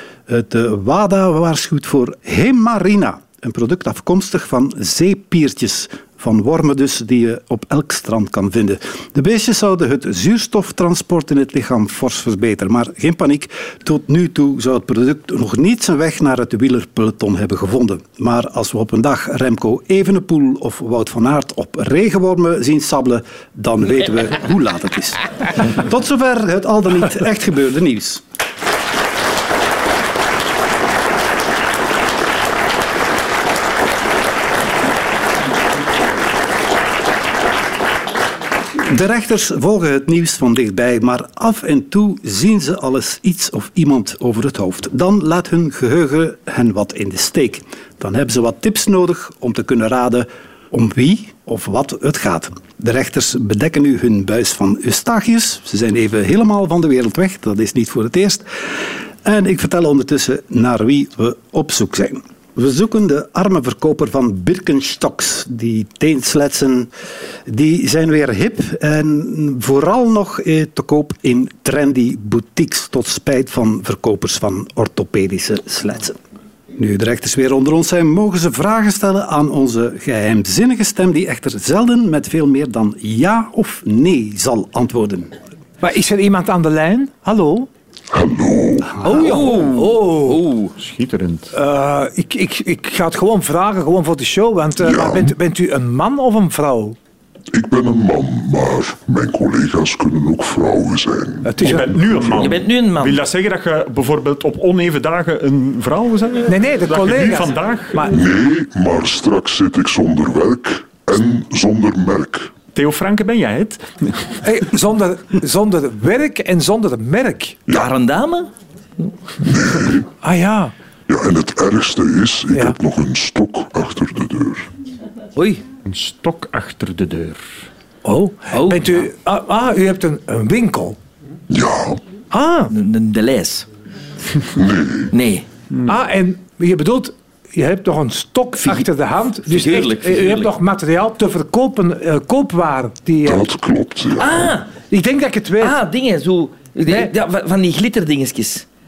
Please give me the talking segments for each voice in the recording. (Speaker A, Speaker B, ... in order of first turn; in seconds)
Speaker A: 0.3-28.2, 38.8-58.5, 59.2-66.9, 67.5-76.2, 76.8-85.3
Speaker B: 85.8-87.7, 89.0-90.4, 91.5-97.0, 101.5-102.0, 106.5-108.2, 114.4-117.6, 120.2-120.7, 128.1-131.0, 132.3-132.7, 135.9-143.5, 144.9-145.8
Speaker C: 88.1-89.0, 94.8-95.3, 97.5-102.3, 108.1-112.5, 119.5-120.0, 121.1-124.7, 131.5-132.0, 134.6-135.1, 143.2-144.5
Speaker D: 89.0-90.7, 102.4-103.2, 117.7-118.5, 125.4-125.6, 128.5-129.1, 132.7-133.7, 135.1-135.4, 139.5-140.5, 144.2-144.7, 145.6-148.7
Speaker E: 90.8-91.5, 101.6-108.1, 112.7-114.4, 125.8-127.5